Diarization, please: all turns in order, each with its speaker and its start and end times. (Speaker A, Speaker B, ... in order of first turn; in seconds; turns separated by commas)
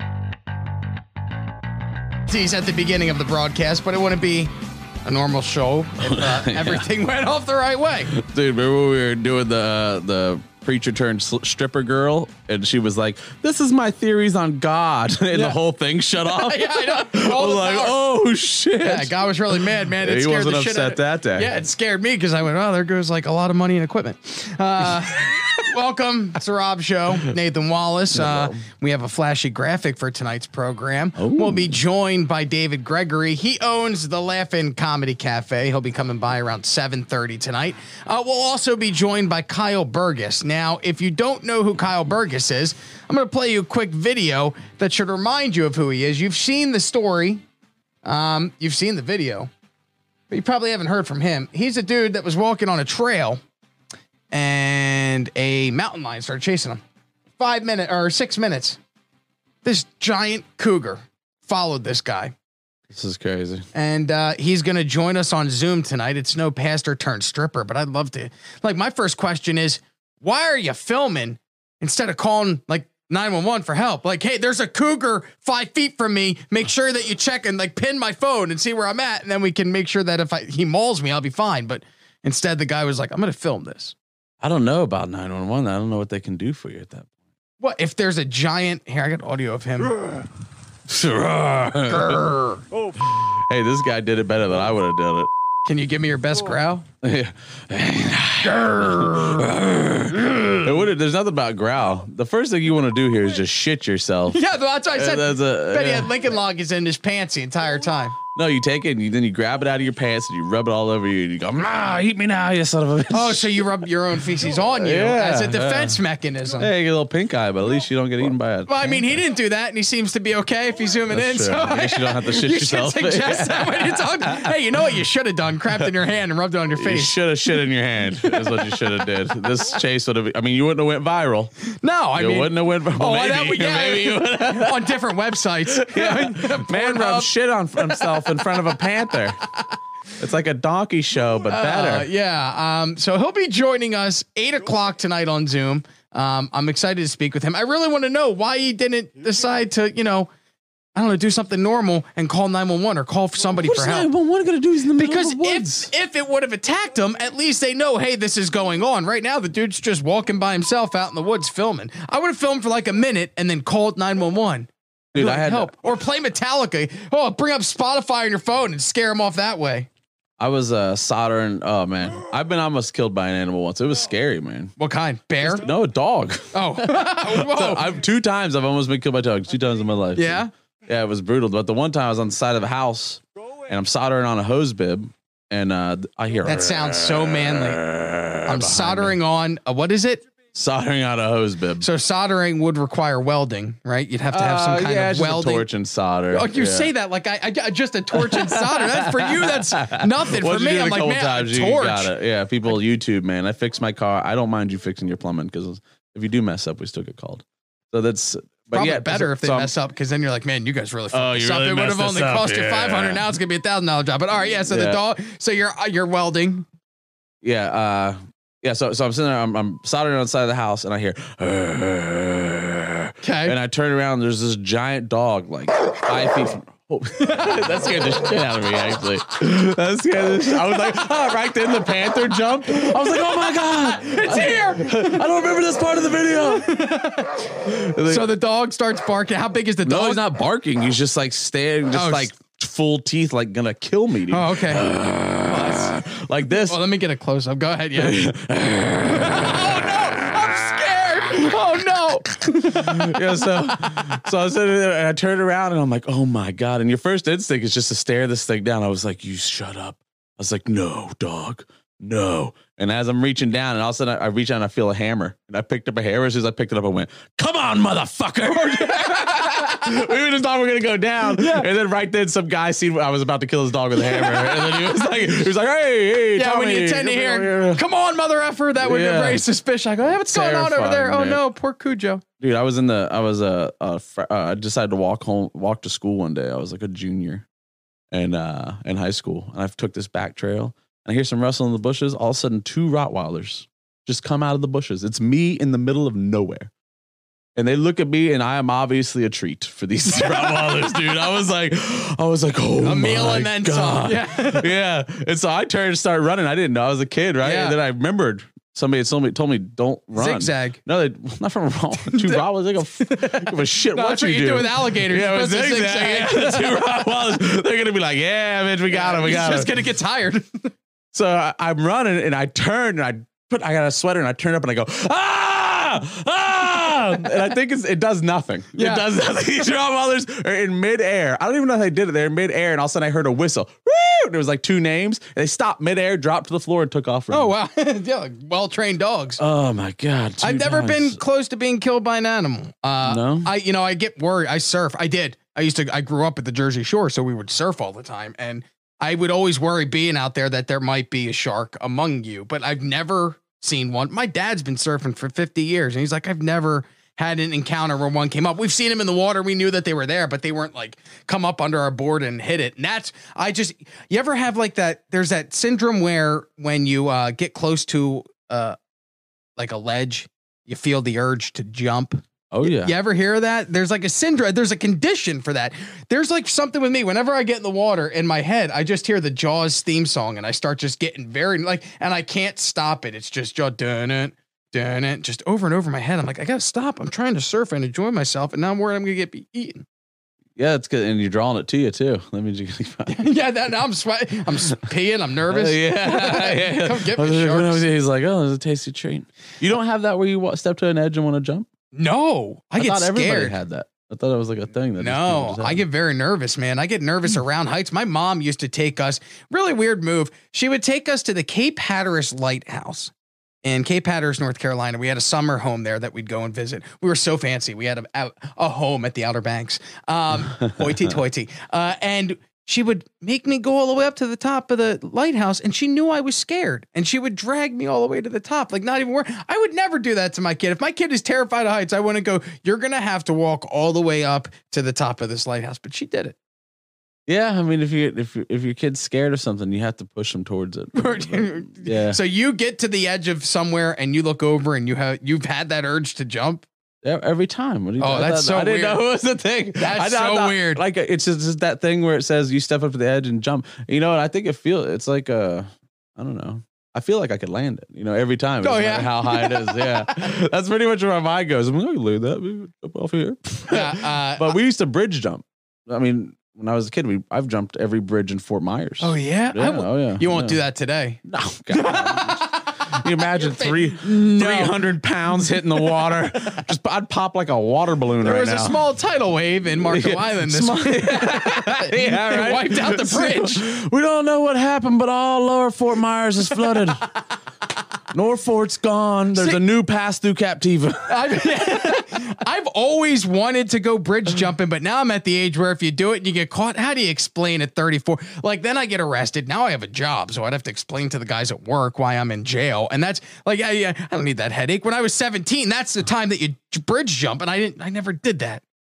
Speaker A: 2.3-4.5, Speaker A: 5.0-8.1, Speaker B: 6.0-6.9, Speaker B: 8.1-21.6, Speaker A: 15.3-15.6, Speaker A: 16.3-18.0, Speaker A: 18.8-47.4, Speaker B: 28.1-28.6, Speaker B: 31.2-31.8, Speaker A: 48.0-49.5, Speaker A: 50.3-53.4, Speaker A: 54.3-56.8, Speaker A: 57.4-58.8, Speaker A: 59.6-62.3, Speaker B: 62.9-63.7, Speaker A: 63.7-84.0, Speaker B: 84.4-87.1, Speaker A: 87.6-90.0, Speaker B: 90.9-92.2, Speaker A: 91.9-92.6, Speaker B: 92.8-95.3, Speaker A: 95.7-96.8, Speaker B: 97.0-104.4, Speaker A: 98.4-99.5, Speaker A: 100.2-100.7, Speaker A: 104.3-108.2, Speaker B: 104.9-106.1, Speaker B: 108.3-113.7, Speaker A: 113.1-116.7, Speaker B: 114.7-116.0, Speaker B: 116.6-119.2, Speaker A: 118.7-127.2, Speaker B: 121.1-124.5, Speaker B: 126.8-131.5, Speaker A: 131.8-137.3, Speaker B: 132.2-135.0, Speaker B: 135.7-139.4, Speaker A: 137.8-138.2, Speaker B: 140.2-142.1, Speaker A: 141.5-150.3, Speaker A: 150.9-154.1, Speaker B: 153.5-155.9, Speaker A: 155.0-169.9, Speaker B: 165.1-165.7, Speaker B: 170.4-174.7, Speaker A: 174.8-175.7, Speaker B: 175.4-189.2, Speaker A: 176.5-177.9, Speaker A: 180.2-180.5, Speaker A: 186.4-187.8, Speaker A: 188.4-190.2, Speaker B: 190.5-191.9, Speaker A: 191.8-195.7, Speaker B: 194.3-196.9, Speaker A: 196.3-202.1, Speaker B: 198.1-209.7, Speaker A: 208.7-216.7, Speaker B: 211.1-213.3, Speaker B: 214.7-215.0, Speaker B: 217.4-236.8, Speaker A: 223.2-223.6, Speaker A: 232.8-235.3, Speaker A: 236.6-237.4, Speaker B: 237.7-238.3, Speaker A: 238.0-240.2, Speaker B: 239.8-246.8, Speaker A: 241.9-242.3, Speaker A: 244.3-244.9, Speaker A: 245.4-246.0, Speaker A: 246.7-248.2, Speaker B: 247.9-249.7, Speaker A: 249.1-254.2, Speaker B: 251.3-277.8, Speaker A: 271.4-271.6, Speaker A: 274.0-275.0, Speaker A: 276.4-282.2, Speaker B: 278.8-279.4, Speaker B: 280.3-281.4, Speaker B: 282.4-287.4, Speaker B: 288.1-296.7, Speaker B: 297.6-319.7, Speaker A: 300.2-300.9, Speaker A: 302.8-304.7, Speaker A: 307.4-307.8, Speaker A: 310.2-310.8, Speaker A: 312.1-312.4, Speaker A: 313.0-317.0, Speaker A: 318.9-320.7, Speaker B: 321.1-337.5, Speaker A: 328.8-329.1, Speaker A: 337.3-339.4, Speaker B: 339.4-341.2, Speaker A: 340.4-368.8, Speaker B: 343.0-343.5, Speaker A: 369.6-389.8, Speaker B: 372.5-372.9, Speaker B: 390.6-393.2, Speaker A: 393.1-397.8, Speaker B: 395.5-401.7, Speaker A: 401.9-403.6, Speaker B: 402.8-405.8, Speaker A: 405.0-413.1, Speaker A: 413.6-436.4, Speaker B: 420.6-421.0, Speaker B: 437.3-442.2, Speaker A: 440.9-446.7, Speaker B: 447.0-470.6, Speaker A: 448.0-449.0, Speaker A: 449.8-450.8, Speaker A: 458.6-460.2, Speaker A: 463.7-464.6, Speaker A: 469.0-471.2, Speaker B: 471.2-478.8, Speaker A: 471.7-474.8, Speaker A: 478.2-483.6, Speaker B: 479.8-487.1, Speaker B: 488.1-491.6, Speaker A: 489.4-489.6, Speaker A: 491.1-508.6